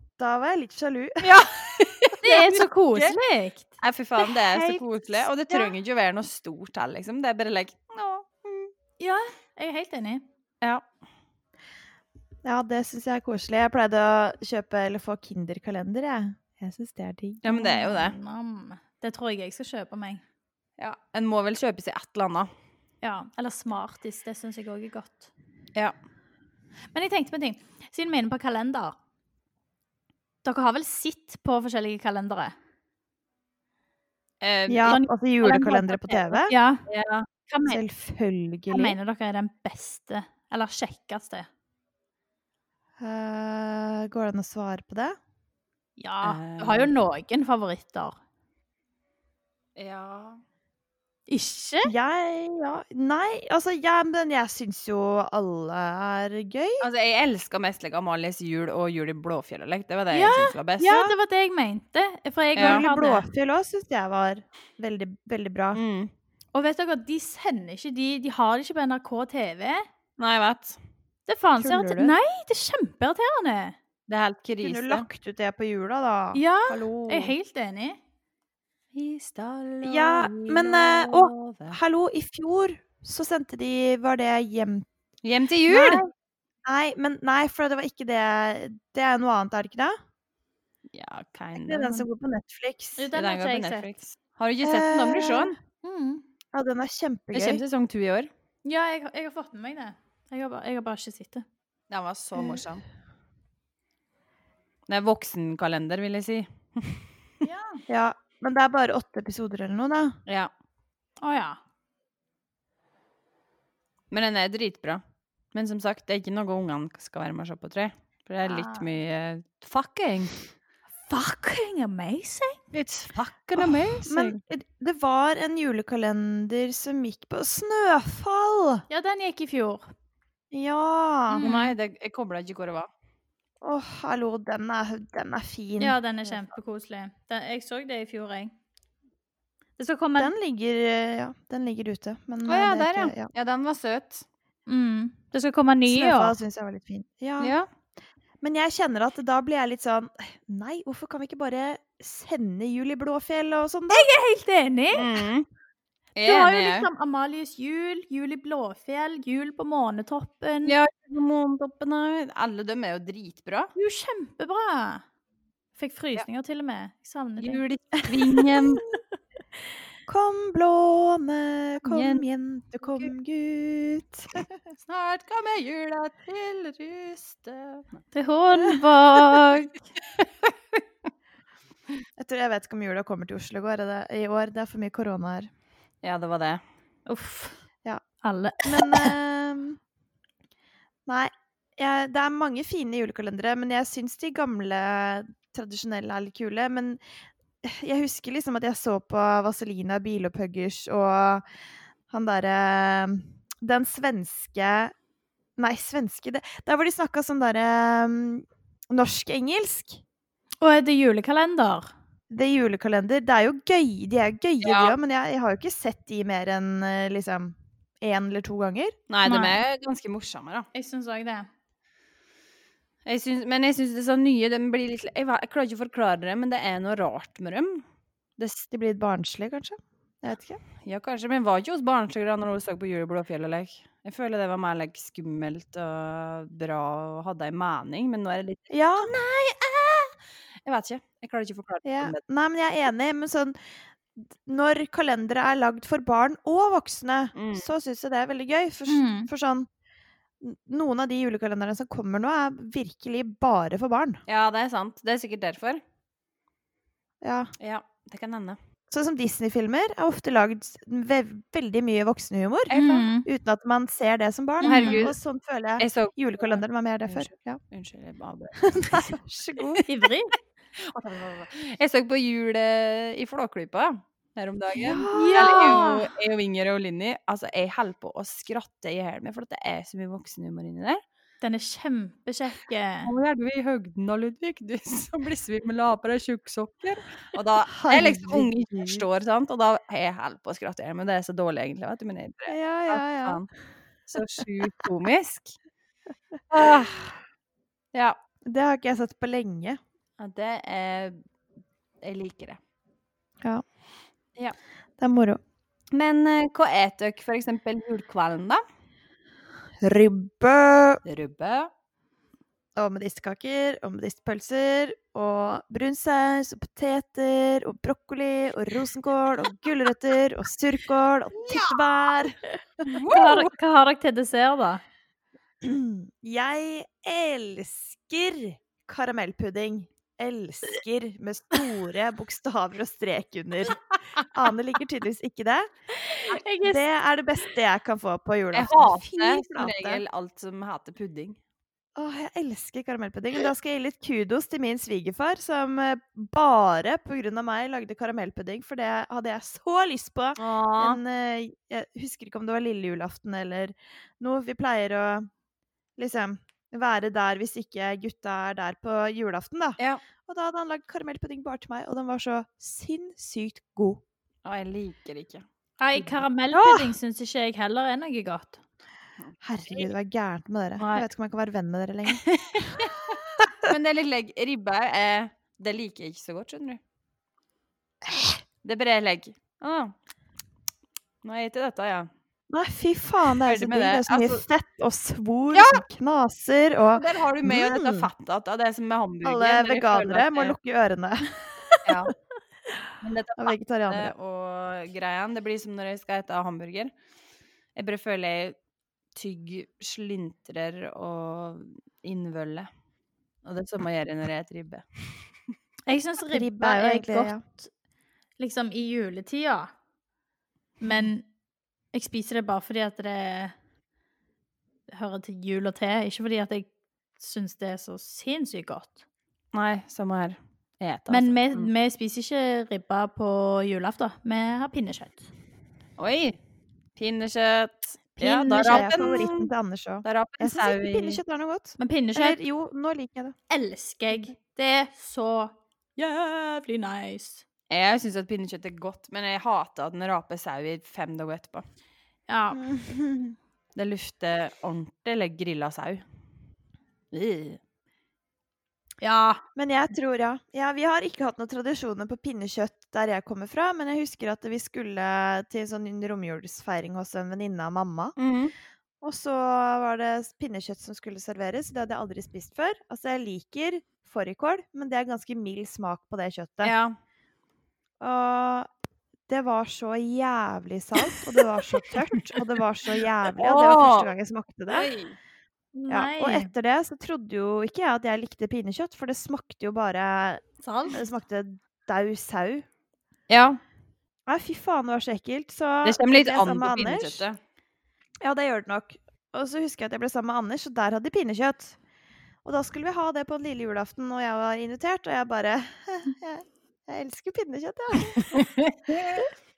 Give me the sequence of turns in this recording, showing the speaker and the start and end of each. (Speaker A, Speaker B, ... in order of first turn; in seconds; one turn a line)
Speaker A: 0.2-1.3
Speaker B: 1.2-3.2
Speaker C: 2.2-3.8
Speaker B: 3.8-8.7
Speaker C: 9.0-10.2
Speaker A: 12.4-17.5
Speaker B: 17.4-18.2
Speaker C: 17.5-20.2
Speaker B: 20.8-22.5
Speaker C: 23.0-25.3
Speaker C: 26.9-29.0
Speaker C: 30.4-32.5
Speaker B: 34.4-35.0
Speaker A: 34.7-36.5
Speaker C: 34.9-36.9
Speaker B: 36.9-37.3
Speaker C: 37.5-37.8
Speaker A: 37.7-39.0
Speaker C: 38.7-41.5
Speaker A: 43.0-45.2
Speaker C: 46.0-48.2
Speaker B: 46.2-46.9
Speaker B: 49.8-50.4
Speaker C: 51.3-51.9
Speaker A: 51.9-56.9
Speaker B: 56.8-61.0
Speaker C: 60.1-63.2
Speaker A: 60.8-61.1
Speaker B: 62.6-62.8
Speaker A: 62.6-65.8
Speaker B: 65.7-66.1
Speaker C: 66.5-69.9
Speaker B: 70.2-70.8
Speaker C: 71.3-73.8
Speaker A: 71.6-72.2
Speaker B: 74.1-75.1
Speaker A: 74.6-77.3
Speaker C: 76.3-78.0
Speaker B: 78.9-81.8
Speaker A: 79.8-84.9
Speaker B: 85.2-86.0
Speaker A: 85.7-86.1
Speaker A: 86.7-90.0
Speaker B: 90.9-92.1
Speaker A: 91.5-93.1
Speaker C: 93.0-93.9
Speaker B: 93.1-95.5
Speaker A: 94.6-95.5
Speaker C: 95.8-96.2
Speaker A: 96.5-97.6
Speaker B: 97.3-98.3
Speaker C: 98.6-101.5
Speaker B: 101.9-102.8
Speaker B: 104.9-107.0
Speaker C: 107.4-107.8
Speaker A: 107.9-110.2
Speaker C: 111.2-111.6
Speaker B: 114.1-115.0
Speaker B: 115.5-120.3
Speaker C: 118.4-118.9
Speaker C: 121.1-122.6
Speaker B: 122.7-124.4
Speaker A: 123.6-128.8
Speaker C: 128.9-129.9
Speaker A: 130.5-131.4
Speaker C: 131.3-131.8
Speaker B: 131.4-132.9
Speaker A: 133.6-136.0
Speaker C: 135.8-138.5
Speaker C: 139.8-140.3
Speaker A: 140.2-143.3
Speaker B: 142.5-144.2
Speaker C: 144.7-146.4
Speaker A: 145.9-147.6
Speaker B: 147.4-147.7
Speaker A: 148.4-154.1
Speaker C: 153.9-155.3
Speaker B: 154.9-155.5
Speaker B: 156.2-156.9
Speaker C: 156.2-160.8
Speaker B: 160.7-163.7
Speaker C: 163.8-165.0
Speaker C: 165.8-167.6
Speaker B: 167.4-168.8
Speaker A: 170.1-174.5
Speaker B: 171.9-172.2
Speaker B: 172.8-173.1
Speaker B: 174.9-178.0
Speaker C: 178.1-179.8
Speaker A: 182.2-185.5
Speaker B: 186.0-186.6
Speaker C: 187.1-187.6
Speaker C: 188.2-189.1
Speaker A: 188.6-189.8
Speaker A: 191.1-197.0
Speaker A: 197.6-201.4
Speaker A: 202.1-204.9
Speaker A: 205.6-210.0
Speaker C: 210.6-211.9
Speaker A: 212.3-218.9
Speaker B: 214.6-214.9
Speaker B: 219.1-220.7
Speaker C: 219.2-219.6
Speaker C: 220.7-221.5
Speaker B: 223.1-227.8
Speaker B: 228.4-228.7
Speaker A: 228.7-230.6
Speaker B: 230.8-242.2
Speaker A: 238.7-239.1
Speaker A: 241.8-243.6
Speaker A: 244.2-249.7
Speaker B: 247.4-247.7
Speaker C: 248.9-249.3
Speaker A: 250.4-254.2
Speaker B: 254.3-255.8
Speaker A: 257.2-257.5
Speaker B: 257.6-258.6
Speaker A: 258.9-267.6
Speaker B: 262.7-263.1
Speaker C: 262.7-263.3
Speaker C: 264.6-265.1
Speaker B: 264.6-265.2
Speaker B: 265.8-269.9
Speaker A: 268.6-269.8
Speaker C: 269.9-270.3
Speaker B: 270.8-281.0
Speaker A: 274.7-275.9
Speaker C: 275.1-276.1
Speaker C: 281.4-283.1
Speaker B: 283.1-293.5
Speaker A: 287.7-289.1
Speaker A: 292.5-293.4
Speaker B: 294.1-295.6
Speaker B: 296.5-297.1
Speaker A: 298.5-299.8
Speaker B: 300.2-301.2
Speaker B: 302.0-302.6
Speaker A: 305.0-305.4
Speaker B: 305.9-308.6
Speaker A: 309.8-311.0
Speaker B: 311.1-311.7
Speaker A: 312.8-323.0
Speaker B: 321.4-321.7
Speaker B: 322.9-323.5
Speaker C: 323.1-324.8
Speaker A: 325.6-333.8
Speaker A: 334.3-335.7
Speaker C: 336.0-336.8
Speaker A: 336.6-340.0
Speaker B: 338.5-341.4
Speaker A: 342.0-355.3
Speaker B: 350.4-351.0
Speaker A: 356.0-364.0
Speaker B: 364.4-366.2
Speaker C: 365.8-368.6
Speaker A: 366.5-366.9
Speaker A: 369.4-372.2
Speaker B: 370.8-371.1
Speaker B: 372.1-376.8
Speaker A: 372.8-373.7
Speaker A: 378.0-378.4
Speaker B: 378.6-379.9
Speaker B: 381.2-382.1
Speaker A: 382.5-388.1
Speaker B: 383.4-384.4
Speaker B: 385.5-385.8
Speaker B: 386.9-390.6
Speaker A: 389.2-391.9
Speaker B: 391.8-392.1
Speaker B: 393.0-396.9
Speaker A: 393.4-394.1
Speaker B: 397.8-398.6
Speaker B: 399.2-402.7
Speaker B: 403.4-404.9
Speaker C: 405.9-407.7
Speaker A: 406.3-407.4
Speaker C: 408.4-409.7
Speaker C: 410.8-411.3
Speaker C: 411.9-413.6
Speaker C: 414.9-419.0
Speaker B: 419.5-421.7
Speaker C: 421.1-425.3
Speaker B: 426.0-426.4
Speaker B: 427.0-429.5
Speaker C: 428.2-429.1
Speaker A: 428.2-433.4
Speaker B: 430.1-431.2
Speaker C: 431.8-432.4
Speaker C: 433.5-437.4
Speaker B: 437.7-441.7
Speaker C: 442.3-442.7
Speaker A: 442.5-443.4
Speaker B: 443.8-446.0
Speaker C: 447.2-447.6
Speaker C: 449.0-449.4
Speaker A: 449.6-458.1
Speaker B: 458.2-458.5
Speaker A: 459.0-466.7
Speaker B: 466.6-466.9
Speaker A: 468.0-468.7
Speaker A: 469.3-474.9
Speaker B: 473.4-474.1
Speaker B: 474.7-475.2
Speaker C: 475.8-476.5
Speaker A: 475.9-482.7
Speaker C: 480.6-481.0
Speaker B: 483.3-483.6
Speaker A: 484.3-487.2
Speaker B: 485.9-487.4
Speaker A: 488.2-491.8
Speaker A: 492.4-498.4
Speaker B: 498.3-499.0